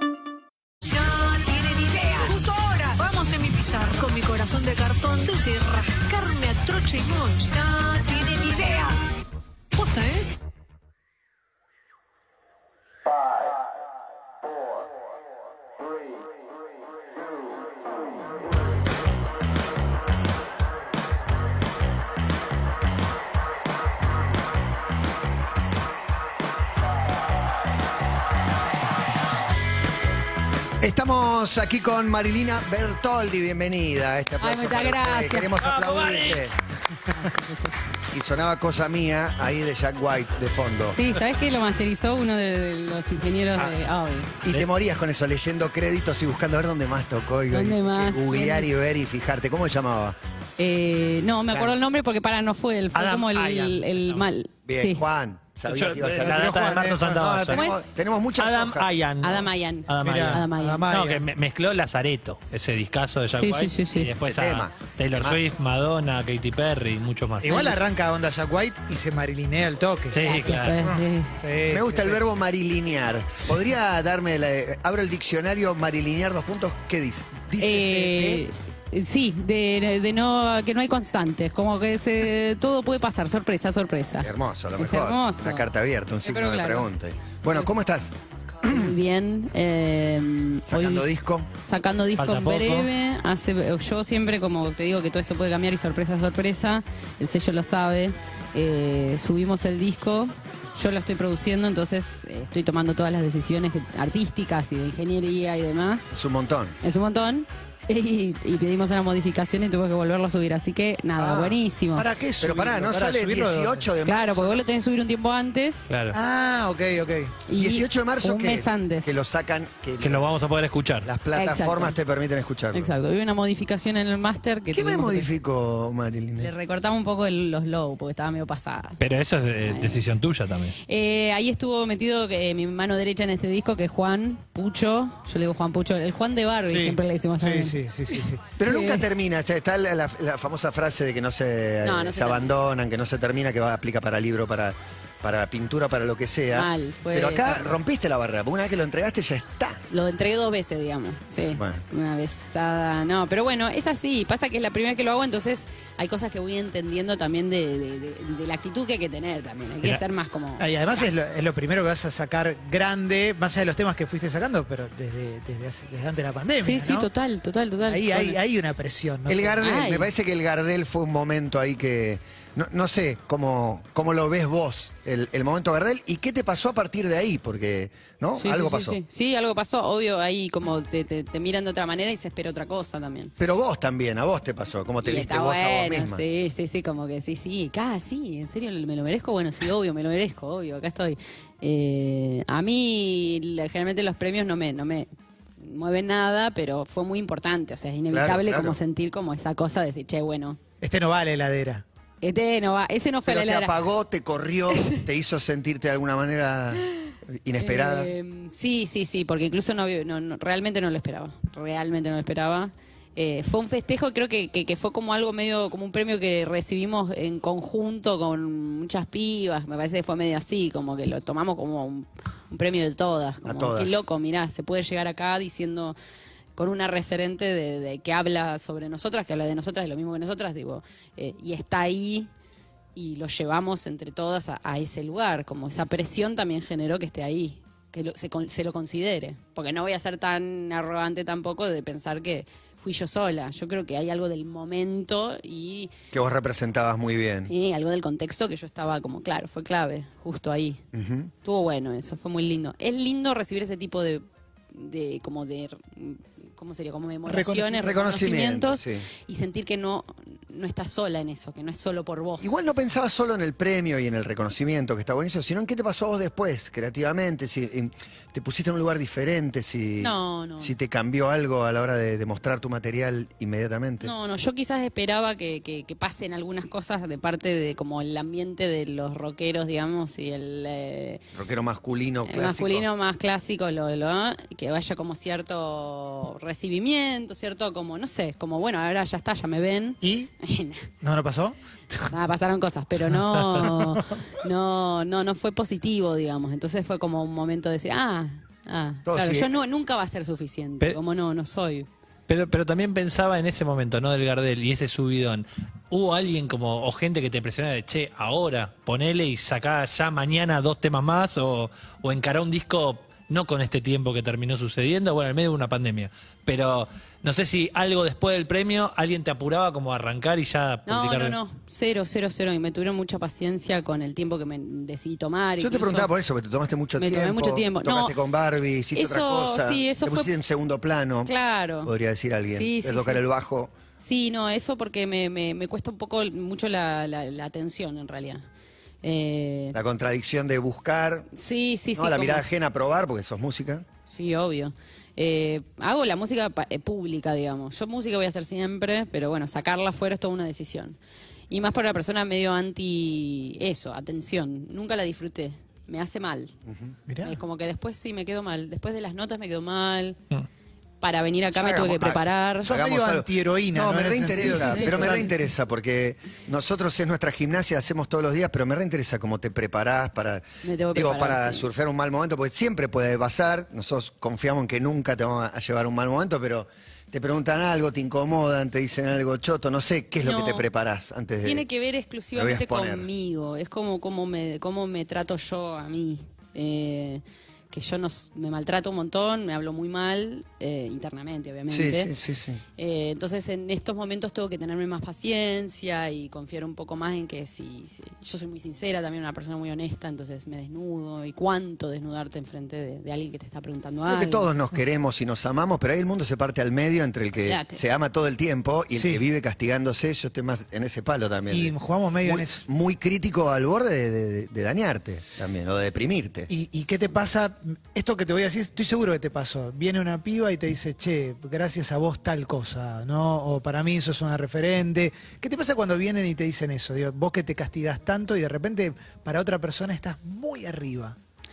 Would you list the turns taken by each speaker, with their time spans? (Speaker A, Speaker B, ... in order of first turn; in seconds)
Speaker A: 0.9-8.9, 9.7-10.3
Speaker B: 30.8-36.5, 38.1-41.0, 44.4-50.1, 51.5-51.8, 54.7-58.9, 64.2-65.5, 71.7-78.4, 84.2-88.9, 90.7-91.5, 106.1-106.8, 111.2-111.6, 112.4-114.6, 117.5-120.3, 121.0-122.9, 124.7-126.5, 138.6-149.8, 151.4-151.8, 169.3-179.0, 183.4-186.2, 198.1-198.8, 203.2-208.1, 223.4-224.0, 246.1-247.5, 250.9-251.3, 257.5-259.1, 262.4-274.1, 281.3-282.9, 299.1-299.5, 325.6-331.3, 331.8-333.7, 339.7-341.3, 341.9-343.9, 356.7-357.0, 361.5-381.6, 382.3-383.1, 391.7-392.6, 404.1-416.5
Speaker C: 34.4-35.5, 37.1-38.0, 41.0-44.3, 47.5-48.7, 50.6-55.0, 57.5-57.8, 59.2-60.9, 63.3-64.1, 70.2-71.4, 77.6-85.7, 86.2-86.9, 88.6-106.1, 106.8-112.1, 114.0-115.9, 117.5-119.1, 121.3-122.0, 122.7-125.3, 126.4-129.0, 129.6-130.0, 130.8-137.8, 138.6-139.1, 141.8-142.5, 146.5-147.8, 149.9-160.7, 166.6-168.4, 169.6-170.1, 178.4-183.3, 185.0-195.1, 195.6-200.6, 202.2-203.8, 207.6-225.9, 226.6-232.3, 232.9-245.9, 247.5-250.8, 251.4-262.6, 270.0-270.7, 274.0-281.2, 282.2-290.9, 292.1-301.9, 320.9-326.1, 327.0-328.2, 328.9-330.3, 331.2-331.9, 332.5-333.2, 334.0-338.4, 339.0-339.8, 341.3-342.4, 344.1-351.0, 351.5-356.5, 357.2-360.2, 361.0-362.7, 364.2-365.3, 370.6-371.7, 380.2-380.6, 381.4-392.1, 392.8-404.5, 407.4-407.8
Speaker D: 35.6-36.4, 52.9-54.3, 55.7-57.7, 58.4-67.7, 70.1-70.9, 92.2-92.9, 115.9-116.2, 120.0-121.1, 129.0-130.8, 302.3-321.4
Speaker E: 56.3-57.4, 60.0-61.2, 67.4-72.2, 111.9-113.9, 116.1-117.4, 136.6-138.4, 160.6-167.1, 167.8-169.6, 200.8-201.8, 257.3-257.6, 290.0-290.3, 291.0-291.6, 357.1-357.4, 362.6-365.3, 408.9-409.2, 411.5-412.6, 416.5-431.2